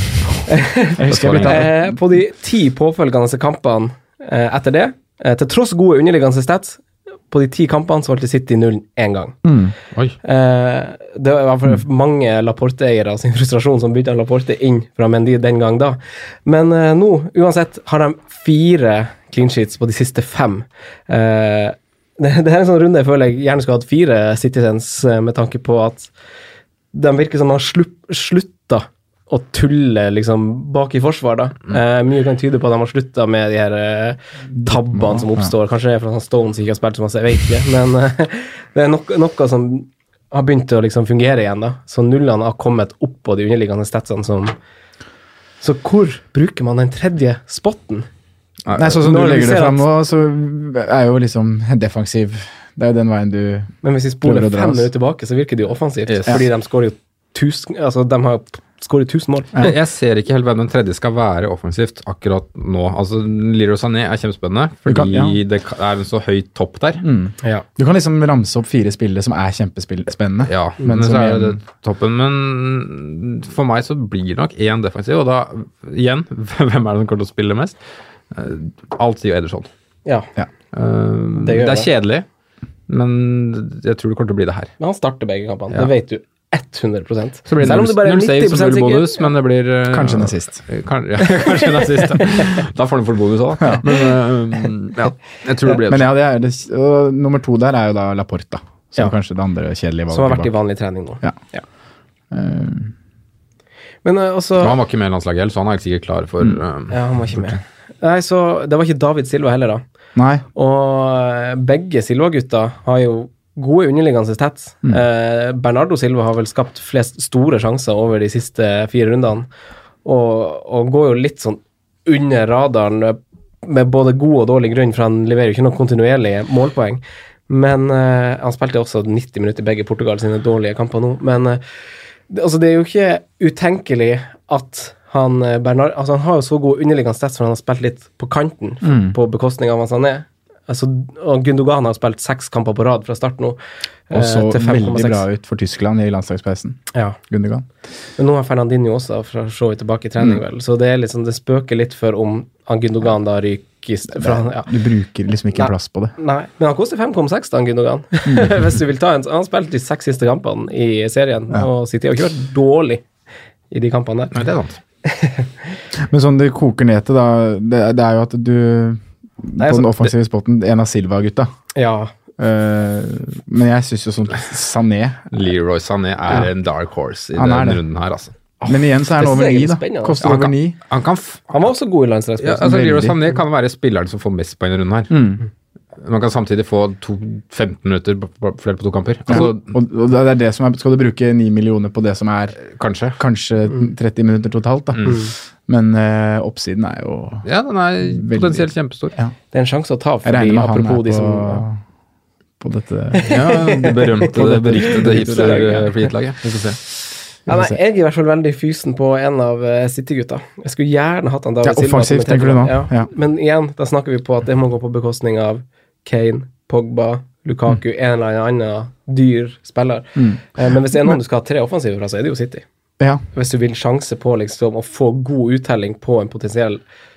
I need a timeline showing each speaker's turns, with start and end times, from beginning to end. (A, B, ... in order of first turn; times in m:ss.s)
0:00.5-0:09.4 A
0:01.0-0:02.0 B
0:01.0-0:01.6 C
0:09.4-0:09.7 B
0:10.2-0:26.1 A
0:26.9-0:44.5 A
0:34.5-0:35.5 B
0:45.6-0:48.1 A
0:48.7-0:49.0 C
0:48.7-0:54.9 B
0:49.0-0:49.8 A
0:53.8-0:59.6 A
0:56.1-0:56.4 C
0:59.6-1:07.0 C
1:04.8-1:05.4 B
1:07.0-1:11.6 B
1:10.5-1:17.8 C
1:18.3-1:19.7 C
1:20.0-1:20.3 A
1:20.7-1:22.2 C
1:21.4-1:21.9 A
1:22.9-1:24.7 C
1:24.8-1:29.2 A
1:27.5-1:36.1 C
1:29.9-1:30.6 B
1:31.4-1:32.0 A
1:35.8-1:40.5 B
1:40.1-1:41.6 A
1:42.3-1:42.9 B
1:44.0-1:44.8 A
1:44.6-1:46.9 C
1:46.9-1:49.8 A
1:50.2-1:50.4 B
1:50.5-1:59.5 A
2:00.0-2:11.6 A
2:12.3-2:23.6 A
2:18.8-2:19.2 B
2:24.1-2:25.2 A
2:24.1-2:27.6 B
2:28.2-2:34.7 A
2:34.2-2:36.1 B
2:35.5-2:43.0 A
2:38.2-2:38.7 B
2:43.7-2:44.4 A
2:44.3-2:44.8 C
2:45.0-2:45.5 A
2:45.9-2:51.5 B
2:49.6-2:49.9 A
2:51.7-2:52.1 A
2:52.4-2:55.2 B
2:55.3-2:58.3 C
2:57.4-2:57.8 B
2:58.6-3:00.3 A
2:58.6-3:00.8 B
3:00.2-3:01.5 C
3:01.5-3:02.7 A
3:02.4-3:05.2 C
3:02.6-3:03.2 B
3:05.1-3:05.4 B
3:06.0-3:09.7 C
3:09.3-3:12.6 B
3:12.6-3:13.2 C
3:13.2-3:17.5 B
3:15.1-3:15.3 A
3:17.4-3:19.1 C
3:18.0-3:19.3 B
3:19.5-3:21.6 A
3:20.2-3:21.8 B
3:22.6-3:25.9 B
3:23.2-3:24.2 A
3:23.3-3:26.8 C
3:24.8-3:25.8 A
3:27.5-3:27.7 B
3:27.5-3:42.6 A
3:31.6-3:33.1 B
3:40.2-3:40.4 B
3:43.3-3:46.8 A